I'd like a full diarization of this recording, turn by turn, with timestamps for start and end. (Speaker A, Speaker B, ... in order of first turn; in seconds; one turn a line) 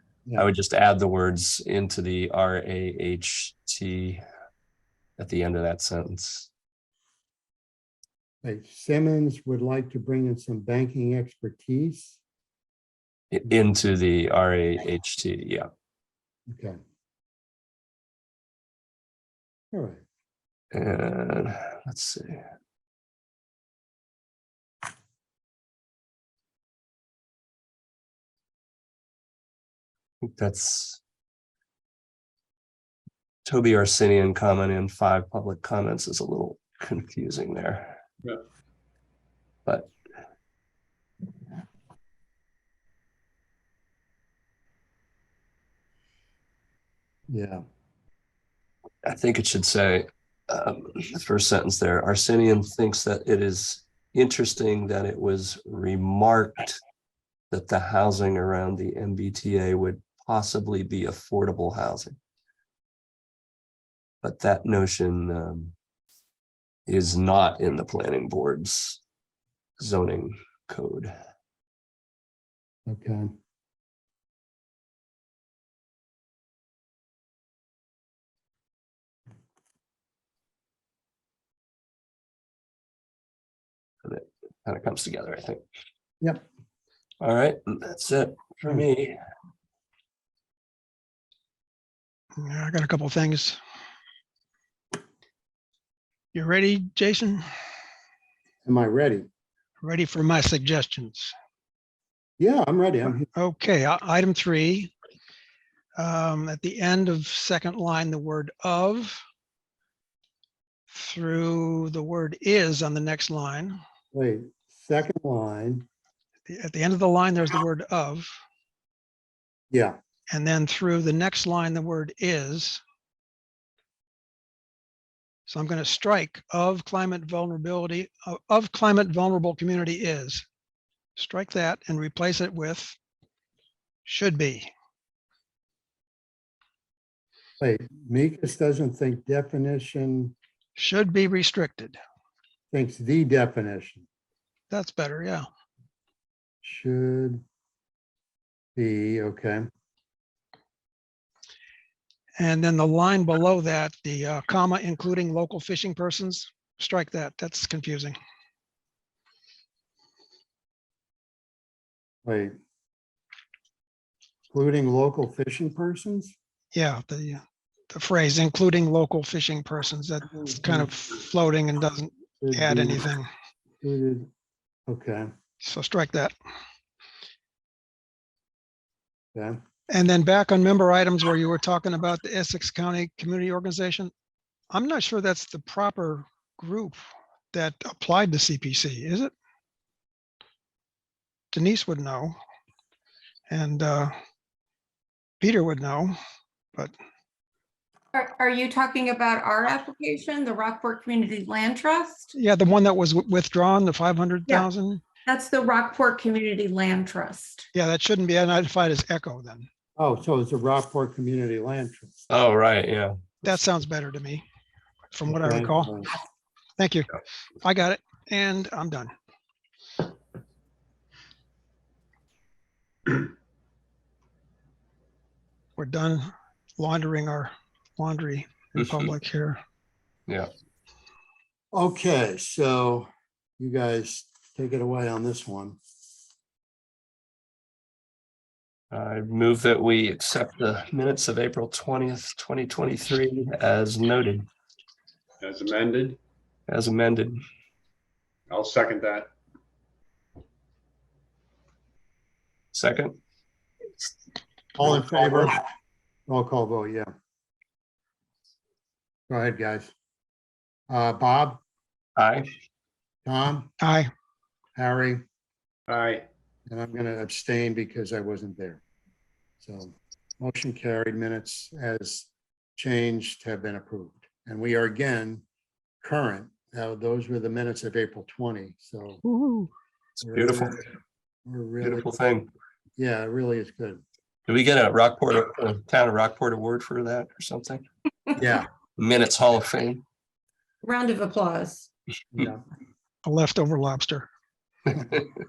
Speaker A: 0.3-4.2
Speaker A: 5.2-6.5
Speaker B: 8.4-12.2
Speaker A: 13.3-15.7
Speaker B: 16.5-16.8
Speaker B: 19.7-20.0
Speaker A: 20.7-22.4
Speaker A: 30.2-31.0
Speaker A: 33.5-38.0
Speaker A: 39.6-39.9
Speaker B: 47.3-47.6
Speaker A: 49.0-56.8
Speaker A: 57.5-62.2
Speaker A: 64.2-65.7
Speaker A: 66.9-69.0
Speaker A: 69.8-71.1
Speaker B: 72.9-73.3
Speaker A: 84.0-85.6
Speaker A: 87.2-89.2
Speaker C: 92.4-93.6
Speaker C: 96.3-97.4
Speaker B: 98.6-99.3
Speaker C: 99.8-101.3
Speaker B: 102.4-103.3
Speaker C: 103.3-104.9
Speaker C: 106.0-109.2
Speaker C: 110.9-113.8
Speaker B: 114.1-115.8
Speaker C: 116.5-118.3
Speaker B: 119.7-120.0
Speaker C: 120.3-122.8
Speaker C: 125.5-130.4
Speaker C: 131.2-132.9
Speaker C: 134.0-134.7
Speaker B: 137.6-140.3
Speaker C: 140.8-142.0
Speaker B: 142.7-144.1
Speaker C: 144.7-145.5
Speaker B: 146.6-147.4
Speaker B: 148.8-149.6
Speaker C: 152.4-158.1
Speaker B: 162.2-162.5
Speaker B: 164.5-166.3
Speaker C: 166.7-173.3
Speaker B: 170.6-170.9
Speaker B: 172.4-173.1
Speaker B: 173.8-174.3
Speaker B: 174.9-175.3
Speaker C: 175.6-176.3
Speaker C: 179.9-184.1
Speaker C: 184.7-187.0
Speaker C: 187.5-189.3
Speaker C: 191.5-192.3
Speaker C: 193.5-194.1
Speaker C: 195.4-196.1
Speaker D: 198.1-202.3
Speaker C: 202.3-205.0
Speaker D: 205.2-207.7
Speaker C: 207.7-209.7
Speaker B: 210.0-212.2
Speaker A: 212.3-213.2
Speaker C: 213.4-214.4
Speaker C: 215.1-215.9
Speaker B: 215.3-216.1
Speaker C: 216.8-219.1
Speaker C: 225.8-229.6
Speaker A: 228.7-229.1
Speaker B: 231.7-233.1
Speaker B: 233.6-235.8
Speaker A: 238.9-244.5
Speaker E: 245.4-246.2
Speaker A: 246.7-247.4
Speaker E: 248.5-249.3
Speaker A: 252.7-253.2
Speaker B: 254.8-255.6
Speaker B: 256.3-257.1
Speaker B: 259.3-259.9
Speaker B: 260.9-261.6
Speaker A: 262.2-262.5
Speaker B: 263.2-263.7
Speaker C: 263.8-264.1
Speaker B: 264.7-265.2
Speaker E: 265.9-266.2
Speaker B: 266.7-268.8
Speaker B: 269.6-275.4
Speaker B: 276.0-279.2
Speaker C: 279.2-279.7
Speaker B: 280.2-280.8
Speaker A: 280.2-280.8
Speaker B: 281.4-282.1
Speaker A: 281.8-282.5
Speaker B: 283.0-284.0
Speaker A: 284.5-287.8
Speaker B: 288.4-288.7
Speaker A: 289.0-290.0
Speaker D: 290.8-291.9
Speaker B: 292.3-292.6
Speaker C: 293.2-294.3